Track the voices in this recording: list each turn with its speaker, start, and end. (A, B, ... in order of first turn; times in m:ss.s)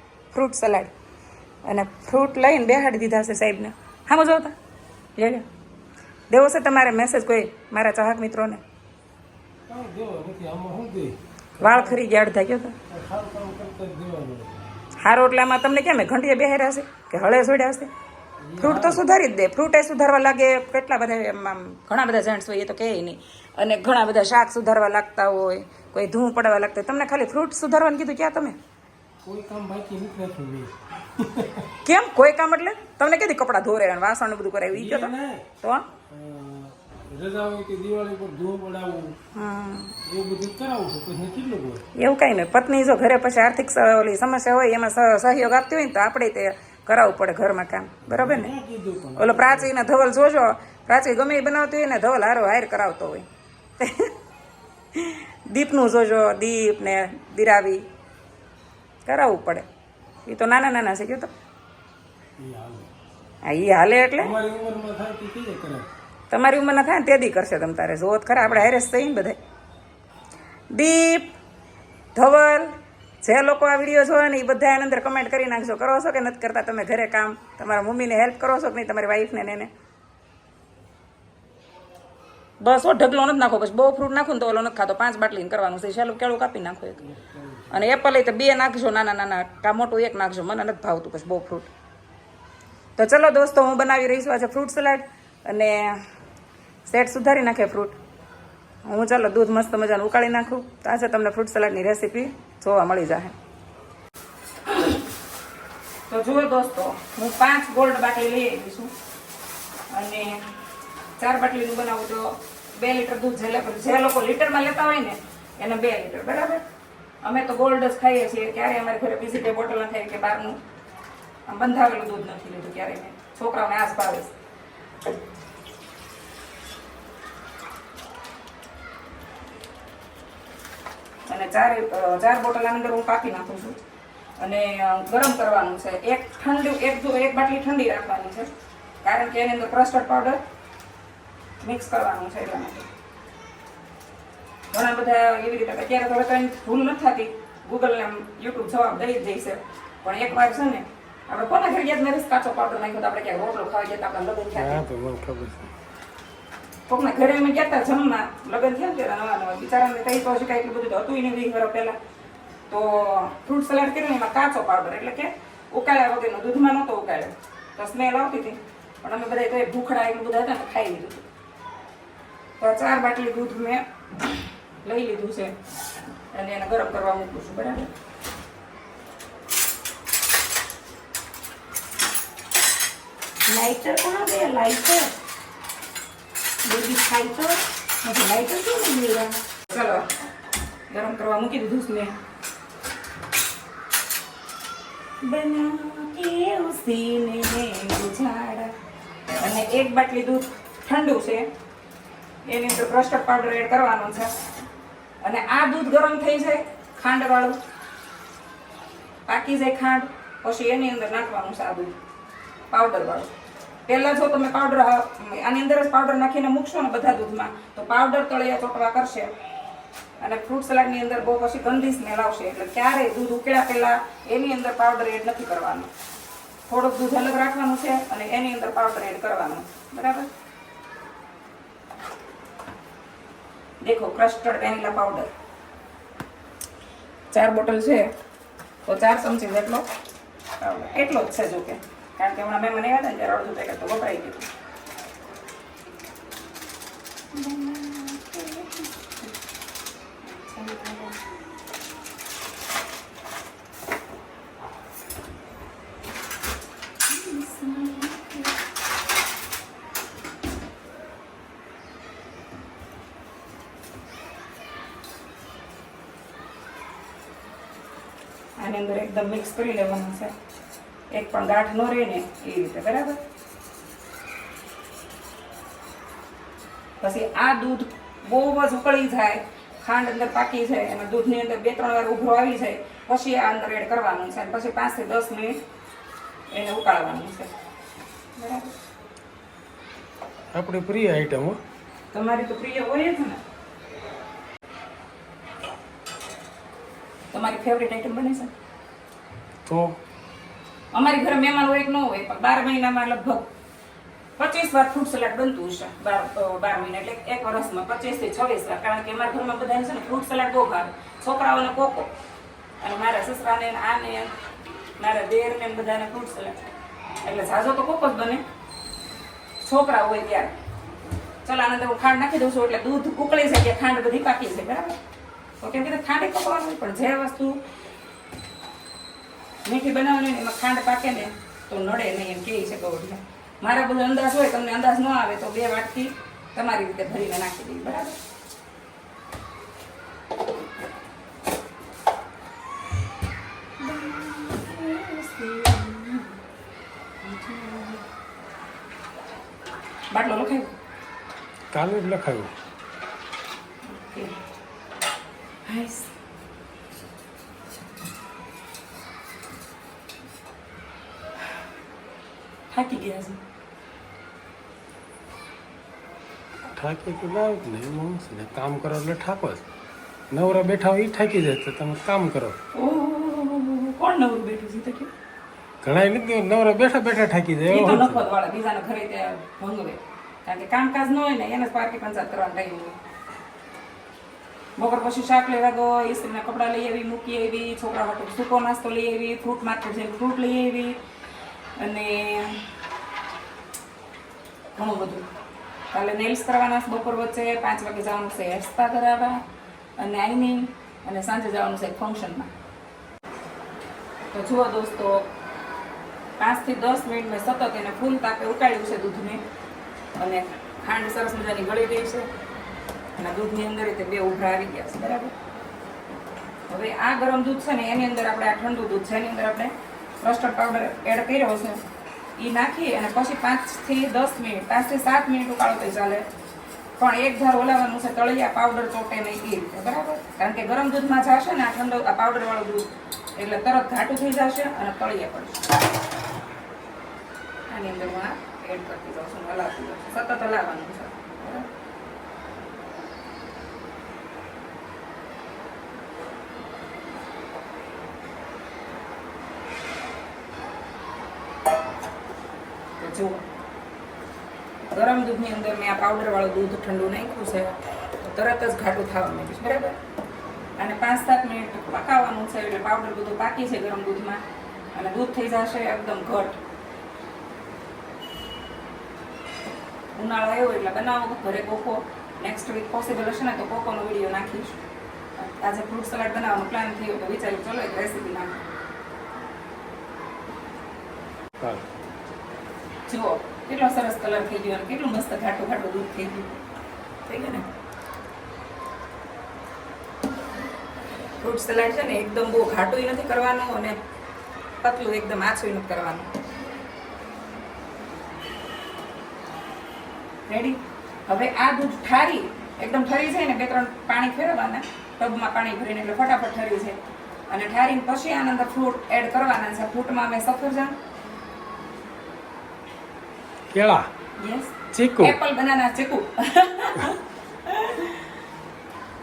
0:00.3-0:00.9 A
0:01.6-0:04.5 A
0:05.2-0:05.4 A
0:06.3-0:08.6 A
0:09.7-0:12.0 B
0:11.6-0:12.8 A
0:12.9-0:14.6 B
0:15.0-0:17.9 A
0:18.4-0:19.0 B
0:18.6-0:28.6 A
0:29.2-0:31.7 B
0:31.8-0:35.8 A
0:34.7-0:35.4 B
0:36.1-0:39.2 B
0:39.4-0:40.0 A
0:40.1-0:41.8 B
0:42.0-0:48.5 A
0:48.1-0:49.7 B
0:49.2-0:53.3 A
0:53.8-0:54.1 A
0:55.0-0:57.8 A
0:59.1-0:59.7 A
1:00.3-1:01.3 A
1:02.4-1:02.9 B
1:03.4-1:04.3 A
1:04.2-1:05.9 B
1:06.3-1:09.4 A
1:10.7-1:11.4 A
1:12.2-1:19.7 A
1:22.6-1:27.0 A
1:27.0-1:27.7 B
1:27.7-1:31.7 A
1:33.0-1:36.0 A
1:36.9-1:38.0 A
1:38.9-1:43.3 A
1:44.7-1:45.0 A
1:46.1-1:48.9 A
1:49.9-1:50.4 A
1:51.2-1:56.6 A
1:57.2-2:00.6 A
2:01.5-2:04.3 A
2:11.3-2:13.8 A
2:14.4-2:18.5 A
2:19.0-2:20.4 A
2:21.6-2:22.9 A
2:24.7-2:34.8 A
2:34.6-2:35.7 B
2:36.9-2:42.0 A
2:42.7-2:51.3 A
2:52.6-2:55.5 A
2:56.3-2:57.9 A
3:03.5-3:05.1 A
3:06.6-3:10.1 A
3:10.9-3:12.2 A
3:15.2-3:18.7 A
3:19.4-3:21.5 A
3:22.5-3:24.3 A
3:25.2-3:27.6 A
3:29.3-3:31.9 A
3:32.7-3:33.3 A
3:33.9-3:39.3 A
3:40.2-3:45.9 A
3:46.7-3:50.3 A
3:53.8-3:55.3 A
3:57.3-3:58.1 A
3:58.9-3:59.9 A
4:00.6-4:04.5 A
4:07.3-4:09.4 A
4:10.2-4:11.2 A
4:17.1-4:18.6 A
4:28.6-4:30.3 A
4:31.1-4:33.2 A
4:37.0-4:45.6 A
4:46.5-4:47.5 A
4:48.4-4:48.7 A
4:50.5-4:51.6 B
4:52.1-4:53.4 A
4:57.3-4:58.5 A
4:59.7-5:00.0 B
5:00.9-5:03.5 A
5:04.4-5:12.1 A
5:12.8-5:14.3 A
5:15.0-5:16.6 A
5:17.2-5:18.4 A
5:19.6-5:20.5 A
5:21.4-5:25.0 A
5:25.6-5:27.6 A
5:29.6-5:38.2 A
5:43.8-5:46.4 A
5:47.2-5:48.0 A
5:50.1-5:50.7 A
5:51.7-5:52.5 B
5:53.9-5:54.3 A
5:55.7-5:56.1 A
6:02.7-6:03.4 A
6:06.7-6:09.6 B
6:10.3-6:12.6 B
6:12.7-6:15.1 A
6:15.8-6:18.3 B
6:17.7-6:22.9 A
6:24.8-6:31.0 A
6:31.8-6:32.7 A
6:34.8-6:35.3 A
6:35.9-6:39.4 A
6:40.0-6:42.5 A
6:44.3-6:45.3 A
6:46.4-6:49.4 A
6:50.2-6:52.3 A
6:53.2-6:55.3 A
6:56.7-7:01.8 A
7:02.4-7:06.2 A
7:07.0-7:12.9 A
7:13.4-7:15.6 A
7:17.7-7:21.7 A
7:33.0-7:33.4 A
7:34.9-7:40.0 A
7:40.8-7:44.4 A
7:44.9-7:46.6 A
7:50.2-7:54.8 A
7:55.4-7:58.6 A
8:01.6-8:01.8 B
8:03.1-8:06.6 A
8:07.3-8:07.7 A
8:11.4-8:14.0 A
8:14.8-8:16.3 A
8:20.5-8:27.0 A
8:27.5-8:31.0 A
8:33.7-8:34.1 B
8:34.4-8:38.3 A
8:34.9-8:35.4 B